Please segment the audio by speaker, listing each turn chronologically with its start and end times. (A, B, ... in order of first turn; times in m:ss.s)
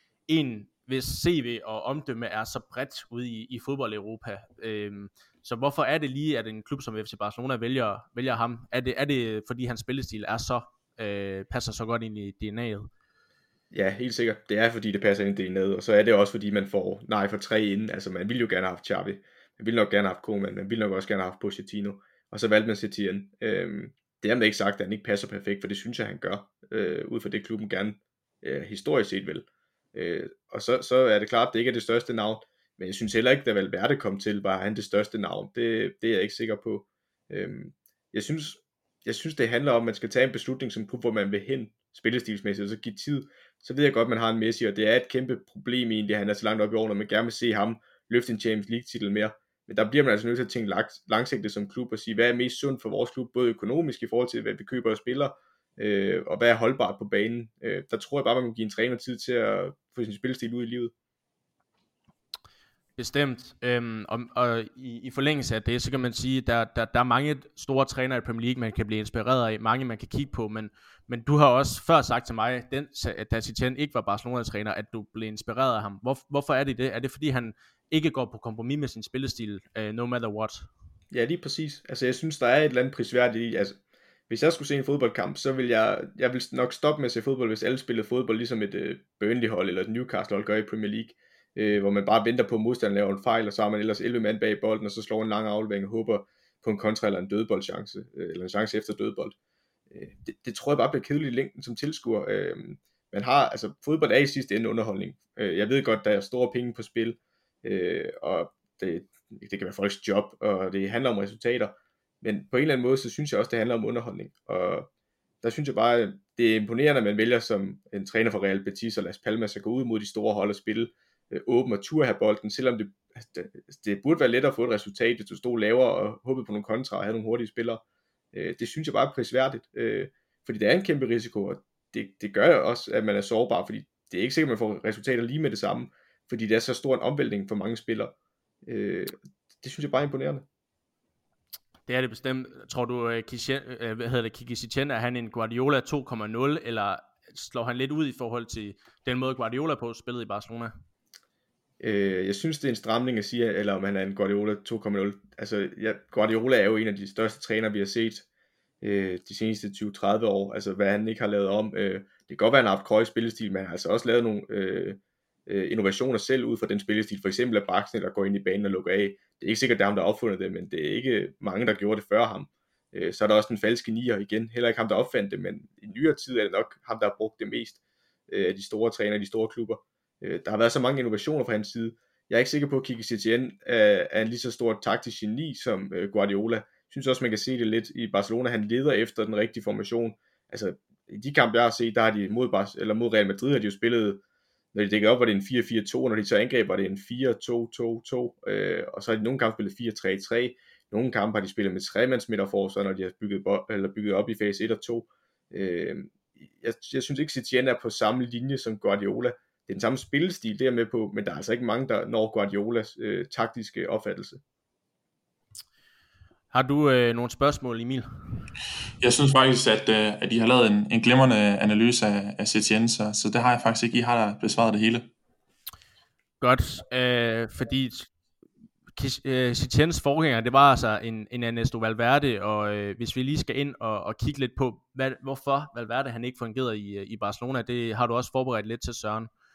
0:00.3-0:12.9 A
0:13.7-1:00.9 B
1:03.0-1:20.7 A
1:21.1-1:39.4 B
1:39.9-1:54.9 B
1:55.4-2:07.8 B
2:08.3-2:18.1 B
2:18.6-2:20.4 B
2:21.9-2:30.7 A
2:31.8-2:38.2 B
2:38.8-3:14.2 B
3:14.7-3:34.4 B
3:36.5-3:38.1 A
3:39.0-3:45.1 C
3:46.4-3:48.1 A
3:49.0-3:59.3 A